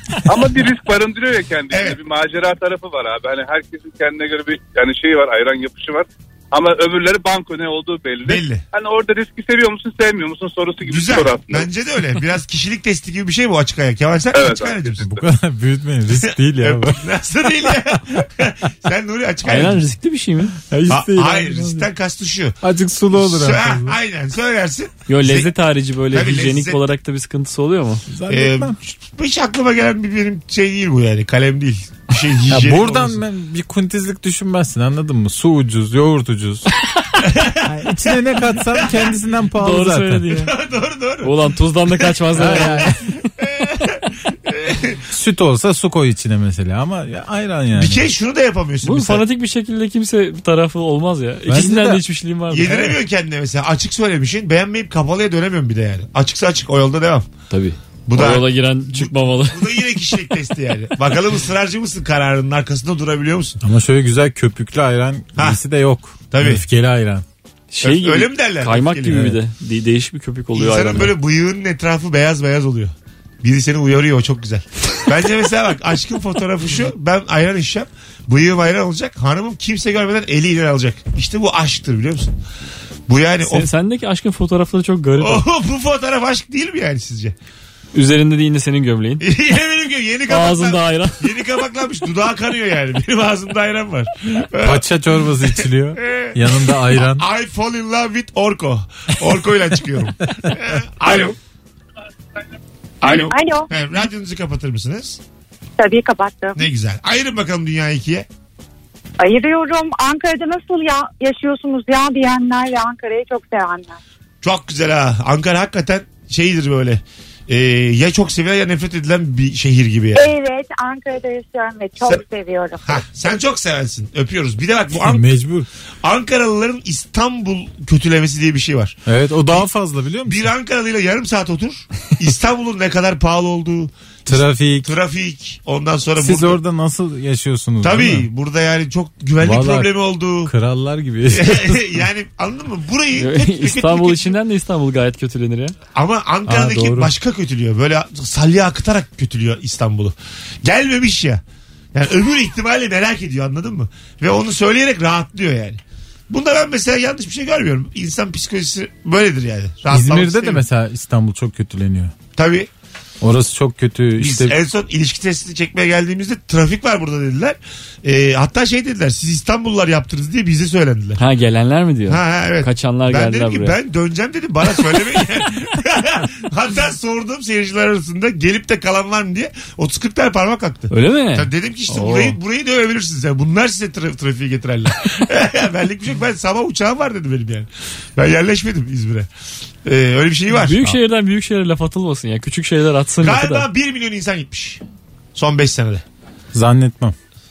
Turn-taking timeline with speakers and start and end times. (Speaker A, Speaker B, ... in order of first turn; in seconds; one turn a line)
Speaker A: 0.2-11.7
Speaker B: 1.7-2.0
Speaker B: 8.2-8.6
Speaker B: 10.8-15.1
Speaker A: 14.3-15.1
Speaker C: 15.0-17.1
Speaker B: 16.6-19.8
Speaker D: 19.4-20.5
Speaker C: 20.7-21.9
Speaker B: 20.9-22.6
Speaker C: 22.6-24.0
Speaker B: 23.1-25.5
Speaker D: 25.1-28.0
Speaker B: 26.1-26.8
Speaker C: 28.1-28.8
Speaker B: 28.3-33.2
Speaker C: 32.5-36.7
Speaker B: 37.2-37.7
Speaker C: 37.6-40.4
Speaker D: 39.6-40.5
Speaker B: 40.3-41.3
Speaker D: 41.2-42.9
Speaker B: 42.2-45.0
Speaker C: 42.4-43.0
Speaker C: 45.1-48.1
Speaker B: 47.7-49.2
Speaker D: 48.8-53.0
Speaker C: 51.5-52.0
Speaker B: 52.5-57.2
Speaker D: 57.5-59.8
Speaker B: 58.1-63.6
Speaker C: 63.6-67.2
Speaker B: 66.3-66.6
Speaker D: 67.7-71.1
Speaker B: 67.8-69.4
Speaker B: 70.5-82.3
Speaker B: 83.1-83.7
Speaker D: 83.4-85.4
Speaker B: 85.2-87.3
Speaker D: 87.9-89.2
Speaker B: 89.2-94.8
Speaker D: 90.3-91.2
Speaker C: 94.6-97.2
Speaker B: 95.6-101.3
Speaker B: 103.0-105.2
Speaker E: 103.1-103.7
Speaker E: 105.8-106.6
Speaker B: 106.5-108.3
Speaker E: 109.2-114.0
Speaker B: 114.4-120.3
Speaker E: 120.1-123.0
Speaker B: 122.8-125.3
Speaker C: 124.9-125.7
Speaker B: 126.0-129.0
Speaker C: 129.1-130.5
Speaker B: 130.2-136.6
Speaker C: 134.3-134.9
Speaker C: 136.2-138.3
Speaker B: 137.8-140.5
Speaker C: 139.4-142.0
Speaker B: 141.3-144.3
Speaker D: 143.2-145.8
Speaker B: 145.9-151.4
Speaker C: 146.5-147.1
Speaker B: 151.9-160.6
Speaker C: 159.9-162.1
Speaker B: 162.3-162.7
Speaker C: 163.2-164.6
Speaker B: 164.2-171.2
Speaker D: 171.2-173.8
Speaker B: 172.1-189.3
Speaker D: 180.9-182.4
Speaker B: 189.8-190.8
Speaker D: 190.5-193.7
Speaker B: 193.2-194.8
Speaker B: 195.3-196.0
Speaker C: 196.5-197.2